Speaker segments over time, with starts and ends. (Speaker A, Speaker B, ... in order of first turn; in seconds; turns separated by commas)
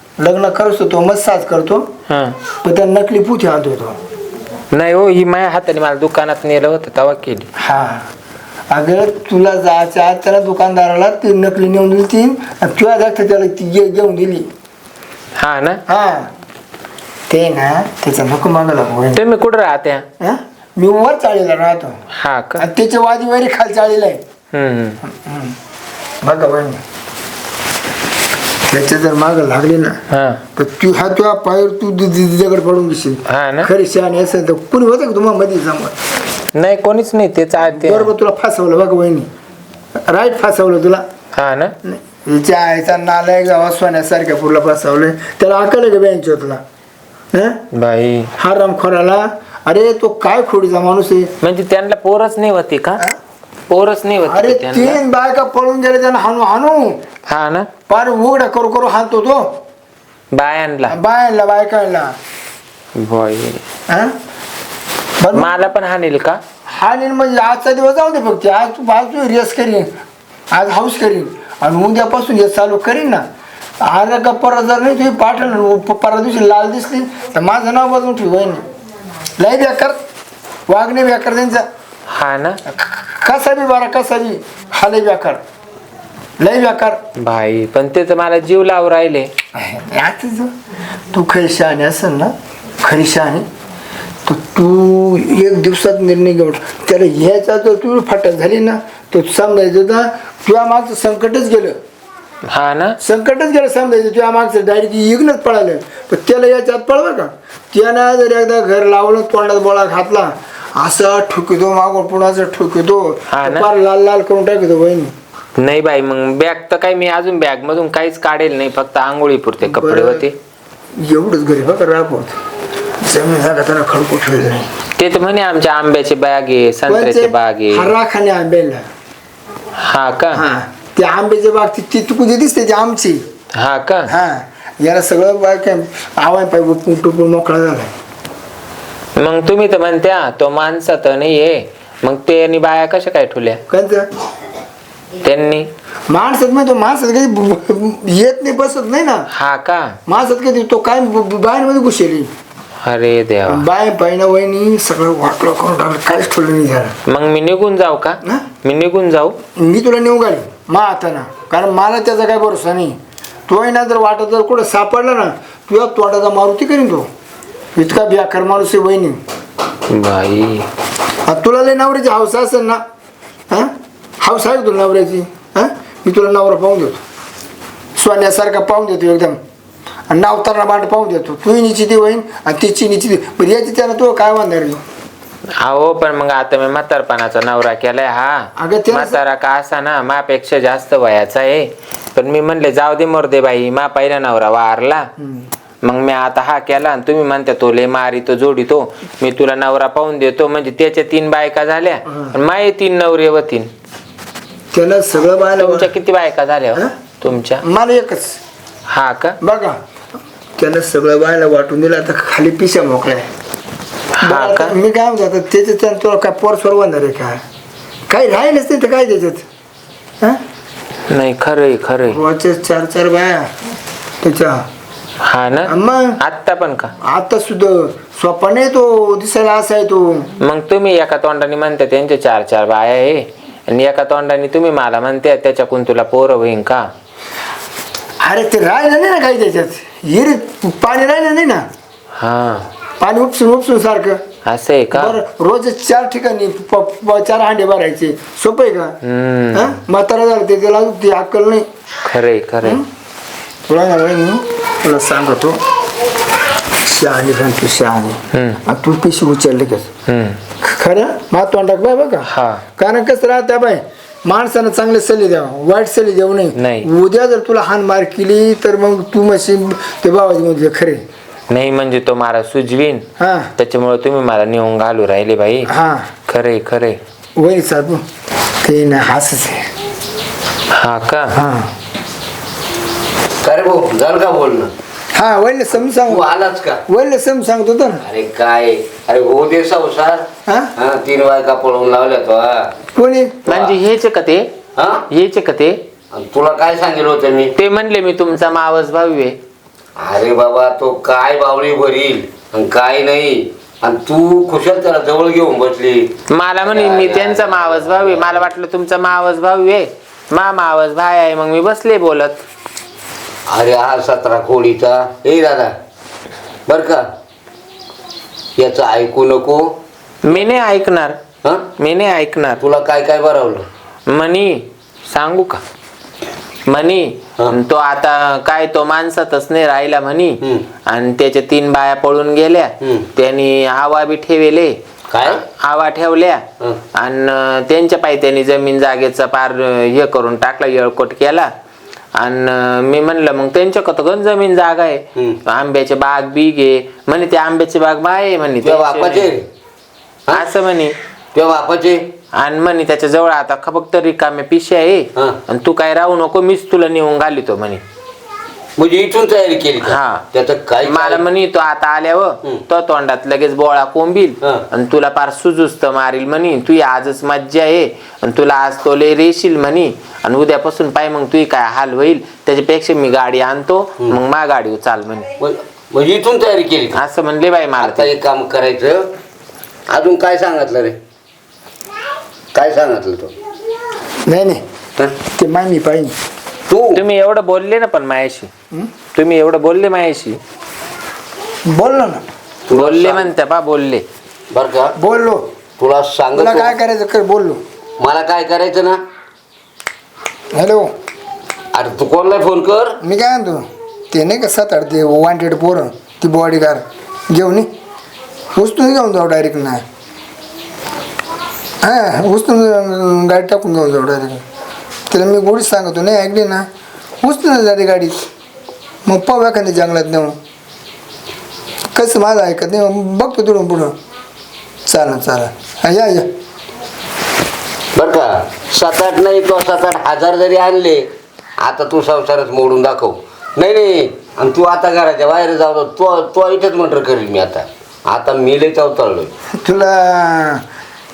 Speaker A: 0.2-1.9, Speaker B: 2.1-2.4, Speaker A: 2.6-4.0, Speaker B: 4.7-7.5, Speaker A: 7.6-8.1, Speaker A: 8.7-14.5, Speaker B: 15.4-15.8, Speaker A: 15.9-16.3, Speaker A: 17.3-19.2, Speaker B: 19.1-20.0, Speaker A: 20.2-22.0, Speaker B: 22.1-22.6, Speaker A: 22.6-24.2, Speaker B: 24.5-25.0, Speaker A: 25.1-25.6, Speaker A: 26.2-26.8, Speaker A: 28.7-30.0, Speaker B: 30.1-30.4, Speaker A: 30.6-36.0, Speaker B: 33.3-33.7, Speaker B: 36.5-38.1, Speaker A: 37.7-39.3, Speaker A: 40.1-41.0, Speaker B: 41.3-41.7, Speaker A: 41.8-46.6, Speaker B: 47.7-48.3, Speaker A: 48.4-51.3, Speaker B: 51.4-53.0, Speaker B: 53.7-55.0, Speaker A: 54.2-57.0, Speaker B: 57.3-57.7, Speaker A: 57.9-59.5, Speaker B: 60.3-61.0, Speaker A: 60.9-62.1, Speaker B: 63.0-63.6, Speaker A: 65.2-65.5, Speaker B: 65.3-66.4, Speaker A: 66.7-69.9, Speaker A: 70.5-73.2, Speaker A: 73.8-78.6, Speaker A: 79.4-80.0, Speaker A: 80.7-81.7, Speaker B: 82.1-82.6, Speaker A: 82.7-85.4, Speaker A: 86.4-87.0, Speaker B: 87.2-89.3, Speaker A: 89.6-90.5, Speaker A: 91.1-93.4, Speaker A: 94.2-101.8, Speaker B: 102.5-103.0, Speaker A: 103.0-115.1, Speaker B: 113.3-113.7, Speaker B: 115.6-120.3, Speaker A: 119.6-120.3, Speaker A: 121.0-122.4, Speaker A: 123.0-124.7, Speaker B: 125.0-127.9, Speaker A: 126.9-128.8, Speaker B: 129.8-130.4, Speaker A: 130.3-133.2, Speaker B: 133.5-134.1, Speaker A: 134.1-137.9, Speaker B: 139.2-143.6, Speaker A: 143.7-144.1, Speaker B: 145.2-145.7, Speaker A: 146.1-149.3, Speaker B: 149.3-149.9, Speaker A: 150.1-152.3, Speaker B: 152.8-153.7, Speaker A: 153.5-156.9, Speaker B: 157.1-159.4, Speaker A: 159.6-162.9, Speaker A: 163.5-167.1, Speaker A: 167.8-169.2, Speaker B: 169.9-170.7, Speaker A: 171.3-172.8, Speaker A: 174.2-177.0, Speaker A: 178.0-179.4, Speaker A: 180.1-184.8, Speaker B: 185.6-195.1, Speaker A: 188.6-189.2, Speaker A: 195.2-195.5, Speaker B: 195.8-203.7, Speaker A: 202.1-202.3, Speaker A: 204.7-205.9, Speaker B: 205.6-207.6, Speaker A: 207.6-208.4, Speaker B: 208.9-209.4, Speaker A: 209.4-209.8, Speaker A: 210.6-213.3, Speaker B: 214.2-214.7, Speaker A: 214.2-217.4, Speaker A: 218.1-219.4, Speaker B: 221.1-222.2, Speaker A: 222.1-223.5, Speaker A: 224.2-224.6, Speaker B: 225.2-226.9, Speaker A: 225.7-226.2, Speaker A: 227.0-230.3, Speaker B: 230.4-236.8, Speaker A: 238.2-241.6, Speaker B: 242.2-242.7, Speaker A: 243.0-244.2, Speaker B: 244.4-245.2, Speaker A: 244.9-248.9, Speaker B: 249.0-249.8, Speaker A: 249.5-251.7, Speaker B: 252.1-252.8, Speaker A: 253.7-255.6, Speaker A: 256.9-259.9, Speaker B: 258.3-258.6, Speaker B: 260.1-260.4, Speaker A: 260.6-271.0, Speaker B: 262.3-262.6, Speaker B: 266.6-266.9, Speaker B: 271.5-273.1, Speaker A: 273.2-273.5, Speaker B: 273.6-275.7, Speaker A: 275.7-276.1, Speaker B: 276.3-277.0, Speaker A: 277.4-278.0, Speaker A: 278.6-279.7, Speaker B: 280.7-281.4, Speaker A: 281.3-281.7, Speaker C: 283.4-284.7, Speaker A: 285.1-286.3, Speaker C: 285.9-286.8, Speaker A: 286.9-288.0, Speaker C: 288.0-292.7, Speaker A: 290.5-290.7, Speaker A: 292.9-293.4, Speaker B: 293.5-294.4, Speaker C: 293.5-293.8, Speaker C: 294.8-295.1, Speaker B: 295.1-295.8, Speaker C: 296.1-297.5, Speaker B: 297.6-299.4, Speaker C: 300.0-306.1, Speaker B: 306.3-312.4, Speaker C: 306.6-308.5, Speaker C: 313.5-315.7, Speaker C: 316.7-317.0, Speaker C: 318.6-319.6, Speaker B: 320.2-321.2, Speaker B: 321.8-322.6, Speaker C: 322.6-323.6, Speaker B: 324.1-325.6, Speaker B: 326.7-336.4, Speaker C: 332.8-333.1, Speaker C: 335.1-335.4, Speaker B: 337.0-341.5, Speaker B: 342.2-349.3, Speaker C: 348.6-349.4, Speaker B: 350.3-350.9, Speaker C: 351.3-352.1, Speaker B: 352.4-357.8, Speaker C: 358.8-361.2, Speaker B: 359.8-360.3, Speaker B: 360.9-375.3, Speaker C: 375.4-377.0, Speaker B: 376.9-378.1, Speaker C: 377.8-379.1, Speaker C: 379.9-381.0, Speaker C: 382.5-383.3, Speaker A: 384.3-384.6, Speaker A: 385.4-386.1, Speaker C: 386.7-387.0, Speaker B: 386.9-388.5, Speaker B: 389.1-390.4, Speaker A: 391.7-392.2, Speaker C: 392.7-393.3, Speaker B: 392.7-394.0, Speaker C: 394.5-394.9, Speaker A: 395.0-395.4, Speaker C: 395.8-396.8, Speaker A: 396.3-397.6, Speaker C: 398.0-399.0, Speaker A: 400.5-400.9, Speaker C: 401.7-403.0, Speaker A: 403.0-407.7, Speaker A: 408.6-409.8, Speaker A: 411.8-414.4, Speaker A: 415.1-416.6, Speaker A: 417.2-418.2, Speaker A: 419.1-420.4, Speaker A: 421.9-423.9, Speaker A: 424.9-426.3, Speaker C: 428.0-431.1, Speaker C: 431.6-439.3, Speaker A: 439.6-440.6